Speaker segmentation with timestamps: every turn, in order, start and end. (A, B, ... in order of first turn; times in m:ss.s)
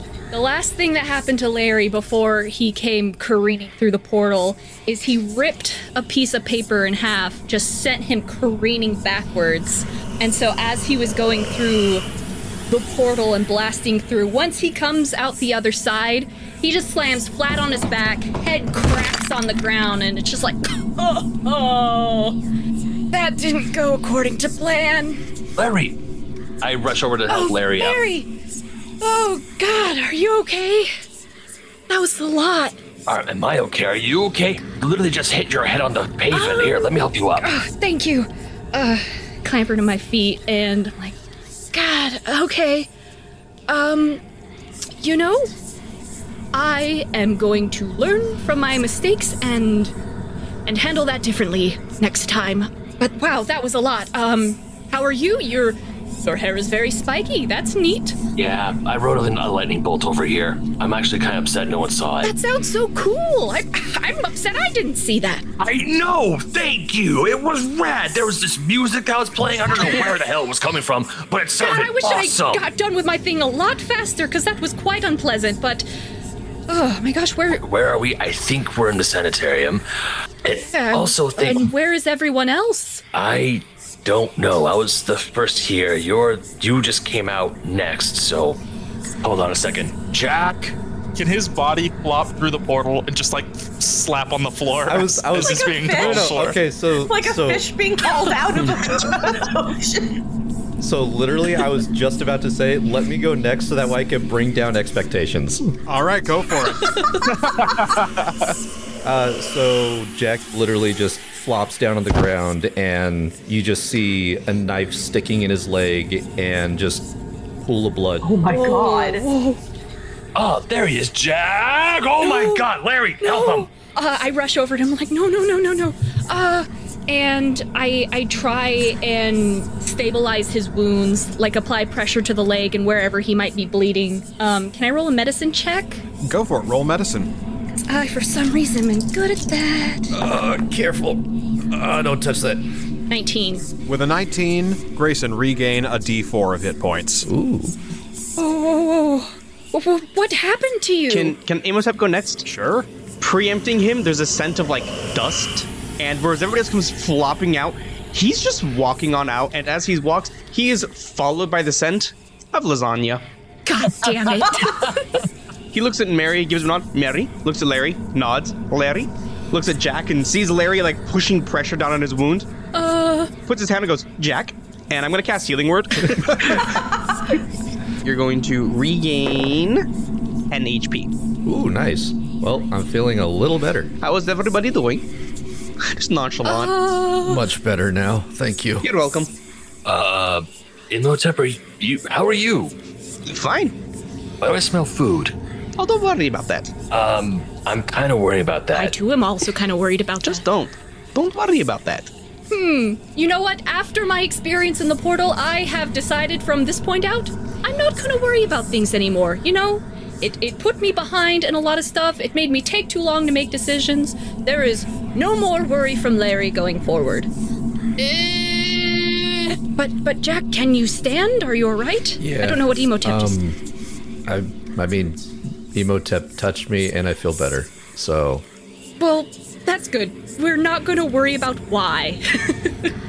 0:00.3-0:12.0 A
0:12.7-0:22.4 A
0:23.1-0:25.2 A
0:25.6-0:26.0 B
0:26.6-0:28.0 B
0:27.3-0:28.3 A
0:29.0-0:30.9 A
0:31.9-0:32.8 A
0:33.1-0:37.5 B
0:36.3-0:41.2 A
0:41.7-0:42.9 A
0:43.7-0:44.2 A
0:45.0-0:45.5 A
0:46.5-0:49.9 A
0:50.7-0:58.2 A
0:58.4-1:02.3 B
1:02.2-1:05.4 A
1:05.6-1:12.6 B
1:09.7-1:10.1 A
1:11.6-1:15.9 A
1:16.7-1:17.6 A
1:17.6-1:19.8 B
1:20.4-1:21.7 B
1:20.6-1:23.0 A
1:23.1-1:28.6 B
1:29.2-1:30.8 B
1:31.2-1:36.6 C
1:34.8-1:37.6 D
1:35.4-1:40.2 E
1:38.5-1:39.0 F
1:40.8-1:45.7 D
1:45.9-1:47.0 G
1:46.8-1:47.2 A
1:47.3-1:48.5 C
1:49.0-1:57.1 D
1:57.6-1:58.3 D
1:58.2-1:59.2 E
1:58.5-1:59.6 A
2:00.4-2:03.7 B
2:02.2-2:02.6 A
2:03.2-2:16.0 A
2:16.2-2:17.3 G
2:17.9-2:20.1 A
2:20.1-2:22.6 D
2:23.1-2:23.7 A
2:23.9-2:27.3 G
2:27.2-2:27.8 D
2:28.4-2:31.4 A
2:31.1-2:32.5 F
2:32.4-2:32.9 G
2:33.2-2:43.2 F
2:43.7-2:45.2 A
2:45.7-2:52.5 F
2:52.7-2:53.3 A
2:53.5-2:56.8 F
2:58.0-2:59.8 F
3:00.5-3:01.1 F
3:01.4-3:03.9 D
3:04.0-3:05.1 F
3:05.8-3:06.8 F
3:06.4-3:07.5 A
3:07.2-3:08.9 D
3:08.8-3:09.3 F
3:09.8-3:12.7 B
3:13.2-3:13.8 F
3:14.4-3:15.4 B
3:15.8-3:16.7 F
3:16.9-3:18.9 B
3:18.8-3:20.4 A
3:20.2-3:22.1 F
3:22.5-3:37.3 A
3:38.0-3:39.0 A
3:39.8-3:43.4 A
3:42.2-3:43.6 D
3:44.3-3:48.5 D
3:49.0-3:52.9 A